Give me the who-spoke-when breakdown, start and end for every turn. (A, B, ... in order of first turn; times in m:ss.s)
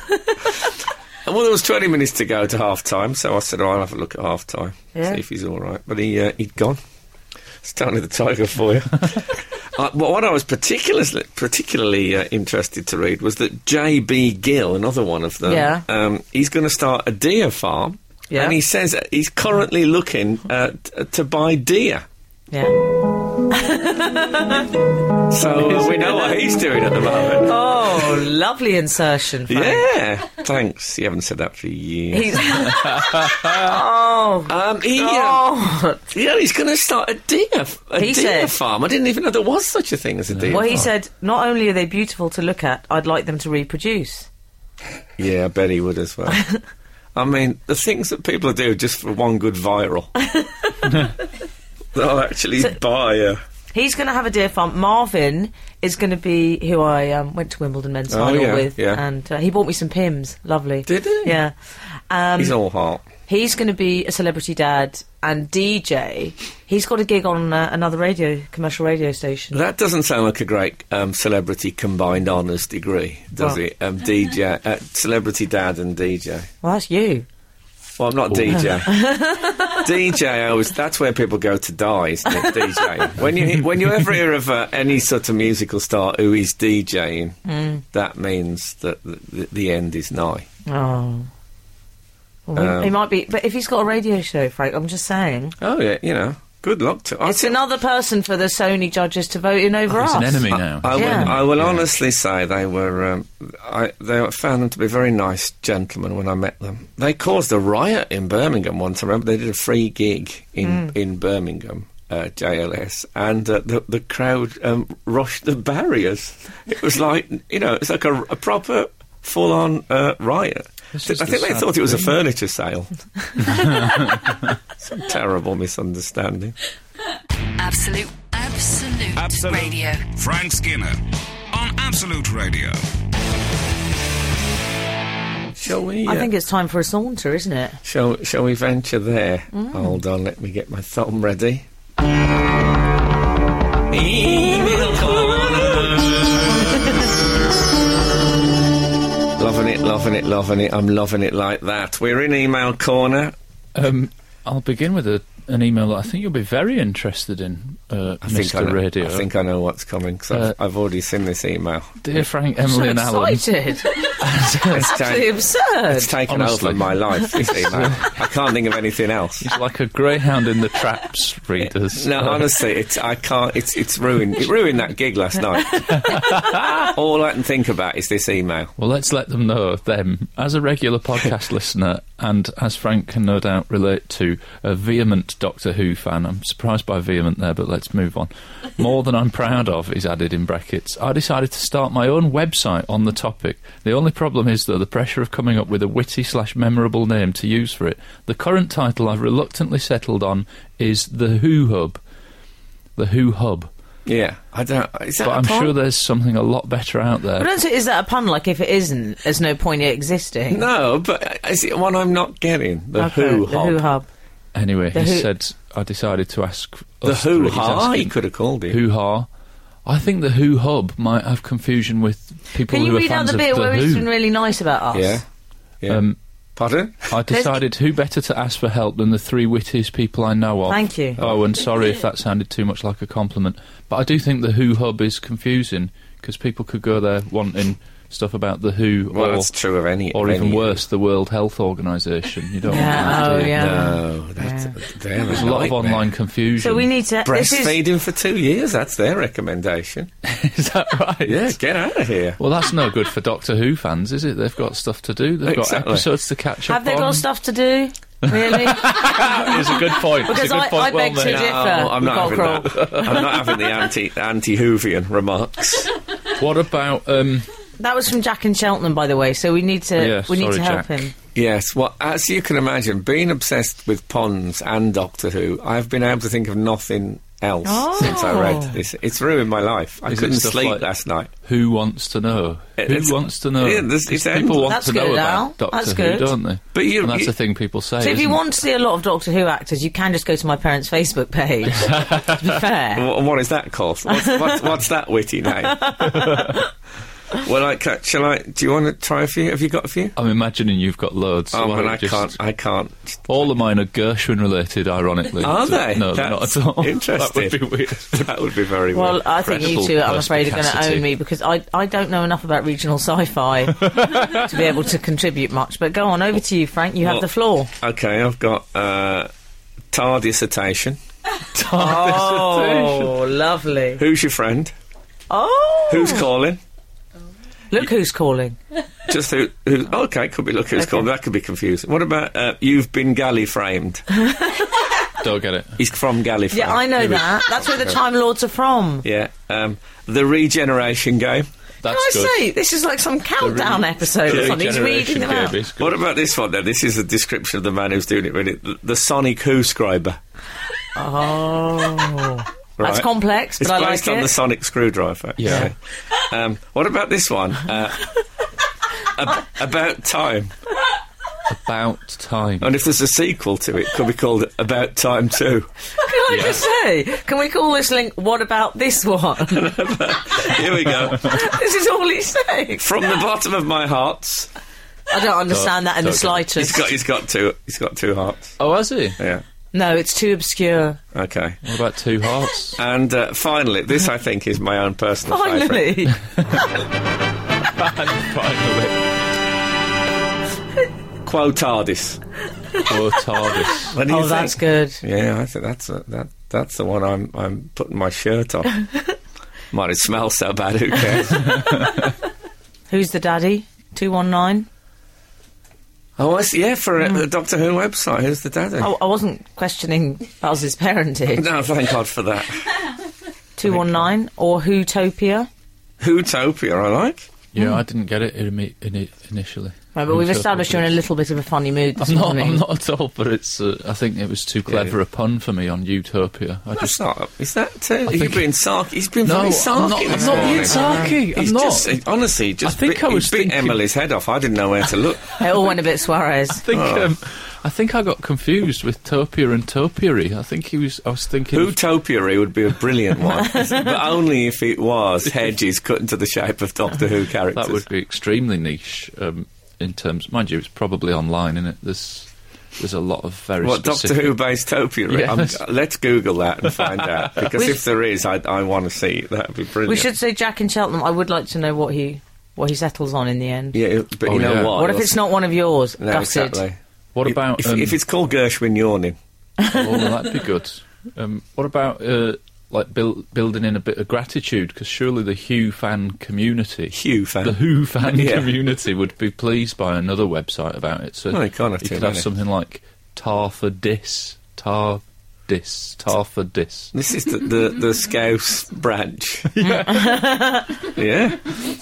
0:01.2-0:06.8 A
0:04.9-0:05.2 B
0:07.6-0:22.0 A
0:15.4-0:15.8 B
0:18.3-0:18.6 B
0:23.5-0:24.7 B
0:25.3-0:28.2 A
0:25.8-0:26.1 C
0:27.4-0:29.8 B
0:29.5-0:32.8 A
0:32.1-0:36.0 B
0:34.5-0:40.9 A
0:38.0-0:38.5 B
0:40.3-0:40.8 C
0:40.5-0:44.3 B
0:45.2-0:46.4 A
0:46.3-0:46.6 B
0:47.1-0:50.1 A
0:50.2-0:51.1 B
0:51.9-0:53.4 A
0:53.7-1:01.5 B
0:58.1-0:59.0 A
1:00.9-1:01.4 A
1:02.1-1:02.6 B
1:02.4-1:03.1 A
1:03.3-1:09.6 B
1:09.5-1:16.5 A
1:16.6-1:17.2 B
1:18.0-1:27.4 A
1:18.3-1:18.7 C
1:18.8-1:19.8 B
1:27.4-1:27.8 B
1:27.9-1:30.4 A
1:30.7-1:31.3 B
1:32.5-1:35.6 B
1:32.6-1:33.0 A
1:35.6-1:37.6 A
1:37.2-1:41.3 B
1:39.9-1:41.9 C
1:40.5-2:03.6 A
1:50.6-1:50.9 B
2:00.9-2:02.2 C
2:03.4-2:04.3 C
2:04.8-2:06.6 A
2:07.6-2:10.1 D
2:09.1-2:11.0 E
2:11.5-2:12.8 E
2:15.5-2:16.3 A
2:16.0-2:17.8 B
2:17.8-2:21.6 A
2:19.5-2:20.0 B
2:23.9-2:27.0 A
2:29.4-2:33.3 A
2:33.7-2:39.2 C
2:38.2-2:42.2 A
2:42.0-2:43.4 C
2:42.6-2:44.2 B
2:44.0-2:44.9 C
2:44.7-2:49.5 A
2:44.8-2:46.1 B
2:46.3-2:48.2 C
2:49.4-2:52.5 C
2:51.6-2:56.1 A
2:55.9-2:56.9 C
2:56.8-2:58.7 A
2:58.8-3:22.0 C
3:23.0-3:23.7 C
3:24.0-3:25.7 A
3:25.2-3:27.5 C
3:27.4-3:30.6 B
3:30.5-3:33.8 A
3:33.0-3:34.1 B
3:34.5-3:38.1 C
3:34.9-3:35.3 B
3:37.0-3:38.8 A
3:38.7-3:39.3 C
3:39.8-3:44.1 C
3:42.6-3:45.2 B
3:44.9-3:45.2 A
3:45.9-3:46.2 C
3:46.6-3:47.1 A
3:47.1-3:59.5 C
3:47.3-3:47.6 B
3:50.7-3:51.2 B
3:59.1-4:00.8 A
4:00.1-4:03.8 C
4:02.7-4:04.7 B
4:03.5-4:06.1 A
4:05.3-4:06.9 C
4:06.6-4:07.8 B
4:07.2-4:10.1 A
4:10.2-4:11.5 C
4:11.2-4:12.4 A
4:12.4-4:17.2 C
4:15.4-4:16.1 A
4:16.7-4:23.0 B
4:18.2-4:21.8 C
4:21.2-4:25.9 A
4:22.6-4:23.4 C
4:26.3-4:27.5 C
4:27.8-4:31.1 B
4:30.0-4:31.1 C
4:31.3-4:41.3 A
4:37.6-4:38.7 B
4:40.1-4:40.8 C
4:41.4-4:48.4 C
4:42.8-4:44.8 A
4:44.6-4:46.3 B
4:46.7-4:47.3 A
4:48.0-4:53.0 B
4:51.8-4:52.5 C
4:52.9-4:56.1 A
4:54.1-4:54.6 B
4:55.7-4:56.6 B
4:56.1-4:56.6 C
4:57.3-5:00.2 A
5:00.2-5:02.4 C
5:01.5-5:03.5 A
5:03.3-5:08.4 C
5:05.4-5:09.8 A
5:08.9-5:17.7 B
5:09.4-5:11.1 C
5:13.8-5:14.5 C
5:17.0-5:17.3 A
5:17.8-5:19.3 A
5:19.9-5:21.0 A
5:21.5-5:23.2 C
5:21.7-5:24.0 B
5:24.0-5:24.7 A
5:25.3-5:26.2 B
5:25.9-5:26.6 A
5:27.7-5:28.6 B
5:29.1-5:34.0 A
5:34.2-5:34.8 B
5:35.2-5:35.8 C
5:35.8-5:38.0 A
5:36.5-5:39.0 B
5:39.0-5:41.5 A
5:41.8-5:42.4 C
5:41.8-5:45.6 B
5:43.4-5:46.0 C
5:44.3-5:44.6 A
5:45.8-5:50.2 A
5:50.9-5:54.3 B
5:52.8-5:58.1 A
5:55.4-5:55.7 C
5:59.0-6:00.5 A
6:01.5-6:02.7 C
6:02.6-6:05.7 A
6:06.0-6:09.7 B
6:06.3-6:06.6 C
6:09.4-6:11.5 A
6:11.1-6:12.9 B
6:12.8-6:14.5 A
6:15.1-6:16.8 B
6:15.5-6:16.4 C
6:16.6-6:18.6 A
6:18.6-6:19.2 C
6:19.2-6:19.4 A
6:19.7-6:21.0 B
6:21.1-6:21.6 A
6:21.6-6:22.8 C
6:22.8-6:26.1 A
6:25.3-6:26.2 B
6:27.7-6:29.0 C
6:31.2-6:32.2 A
6:32.8-6:33.9 C
6:33.8-6:38.7 A
6:34.0-6:35.0 B
6:39.7-6:41.6 A
6:42.9-6:44.7 B
6:46.2-6:48.9 A
6:48.8-6:51.5 B
6:51.3-6:52.7 A
6:53.6-6:55.5 B
6:56.0-6:57.3 A
6:57.5-7:00.9 C
6:59.9-7:02.6 B
7:02.0-7:07.0 C
7:04.6-7:04.9 A
7:06.8-7:15.4 A
7:08.1-7:08.4 C
7:09.2-7:12.0 C
7:12.6-7:13.8 C
7:15.4-7:16.6 B
7:16.6-7:21.8 C
7:16.7-7:17.1 A
7:21.5-7:27.8 A
7:27.5-7:34.4 C
7:33.6-7:40.1 A
7:35.1-7:35.6 C
7:36.7-7:37.5 C
7:39.8-7:43.8 B
7:43.7-7:45.2 A
7:44.3-7:44.8 C
7:44.7-7:46.6 B
7:46.0-7:49.2 A
7:47.1-7:48.0 C
7:49.7-8:06.9 C
7:56.9-7:58.5 A
8:01.3-8:02.3 A
8:06.9-8:09.6 A
8:09.5-8:10.2 C
8:09.6-8:10.9 B
8:10.9-8:11.5 A